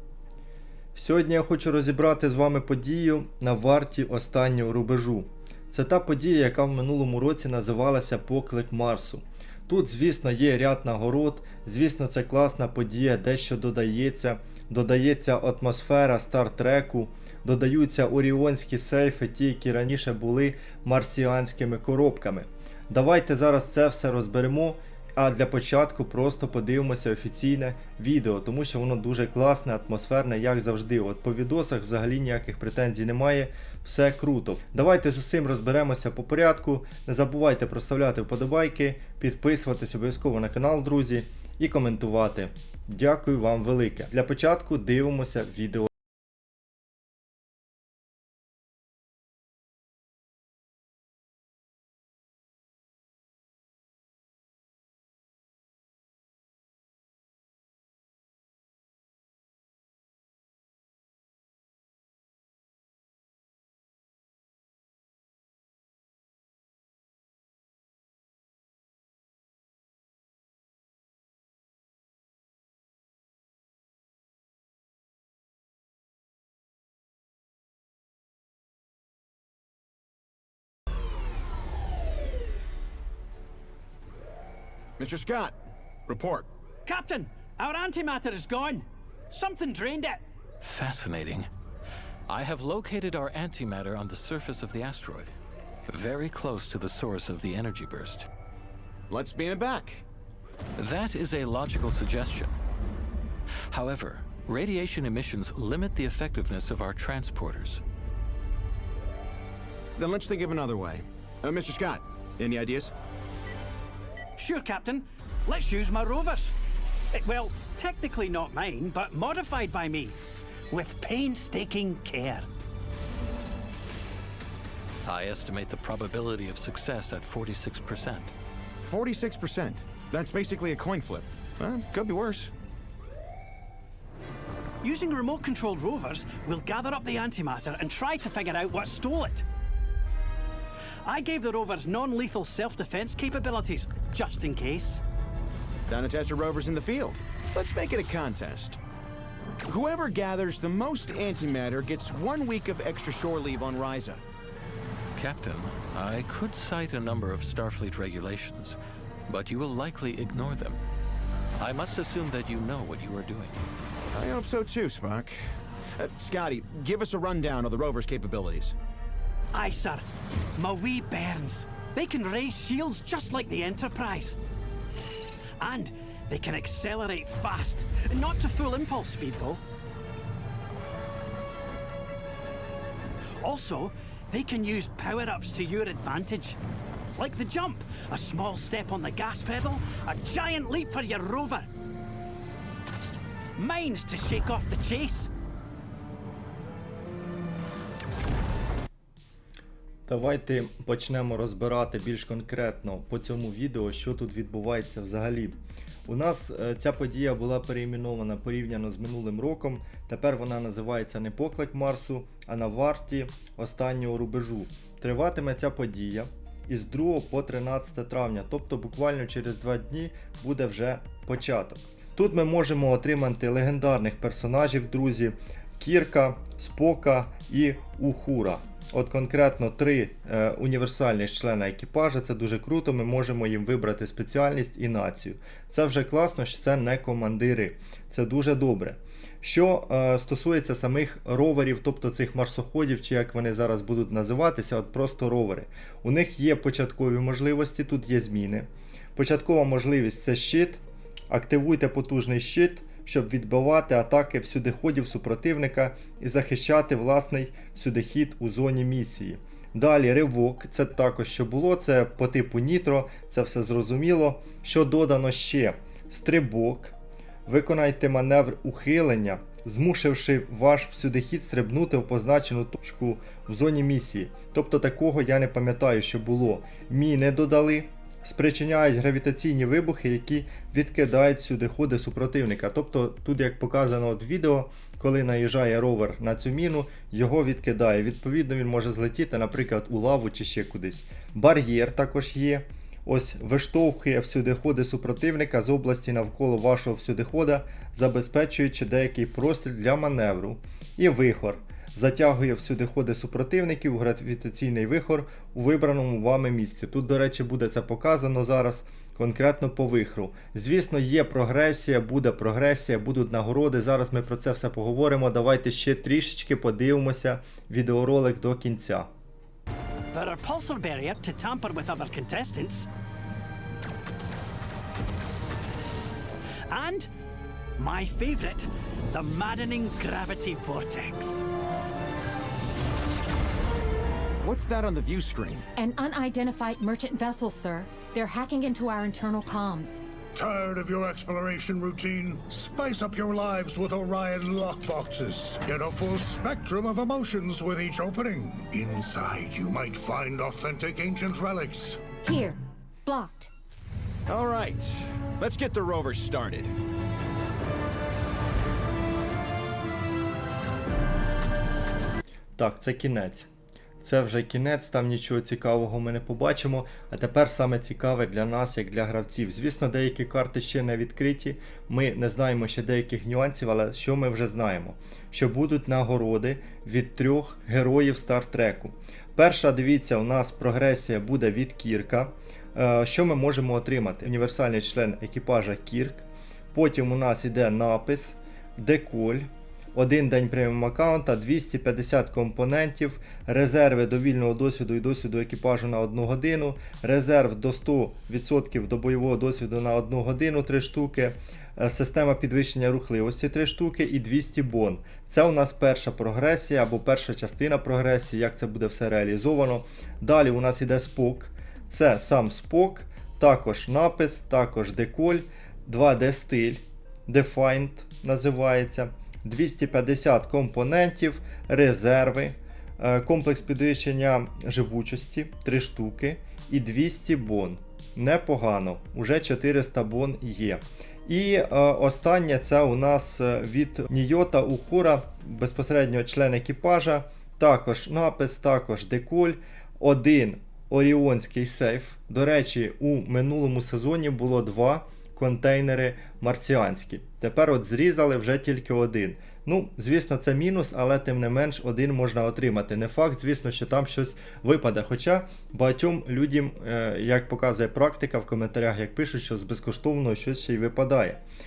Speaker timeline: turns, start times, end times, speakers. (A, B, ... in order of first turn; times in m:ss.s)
0:01.0-0:45.9 A
1:25.0-1:25.6 B
1:26.1-1:26.5 B
1:26.9-1:30.2 C
1:30.6-1:31.5 D
1:32.3-1:35.3 D
1:35.9-1:38.3 D
1:39.1-1:40.0 B
1:40.8-1:42.6 D
1:43.7-1:47.8 D
1:50.0-1:52.9 B
1:54.4-1:56.5 C
1:57.1-2:00.2 C
2:00.7-2:02.5 C
2:05.0-2:08.3 D
2:08.8-2:12.5 B
2:14.8-2:19.4 C
2:21.1-2:25.0 C
2:25.9-2:28.8 B
2:29.7-2:34.2 B
2:35.2-2:40.8 D
2:41.6-2:43.6 D
2:44.1-2:45.4 B
2:46.0-2:48.8 B
2:49.5-2:50.0 C
2:50.6-2:54.4 C
2:55.6-2:59.6 C
3:03.4-3:06.6 C
3:07.2-3:11.7 C
3:13.6-3:15.3 C
3:20.1-4:27.0 A
4:27.5-5:19.1 A
5:20.1-5:22.9 C
5:26.7-5:27.1 C
5:27.8-5:31.5 C
5:34.4-5:35.7 B
5:35.8-5:40.0 E
5:40.4-5:52.0 F
5:52.2-5:53.5 E
5:54.3-5:56.7 B
6:02.6-6:03.5 A
6:04.0-7:41.4 A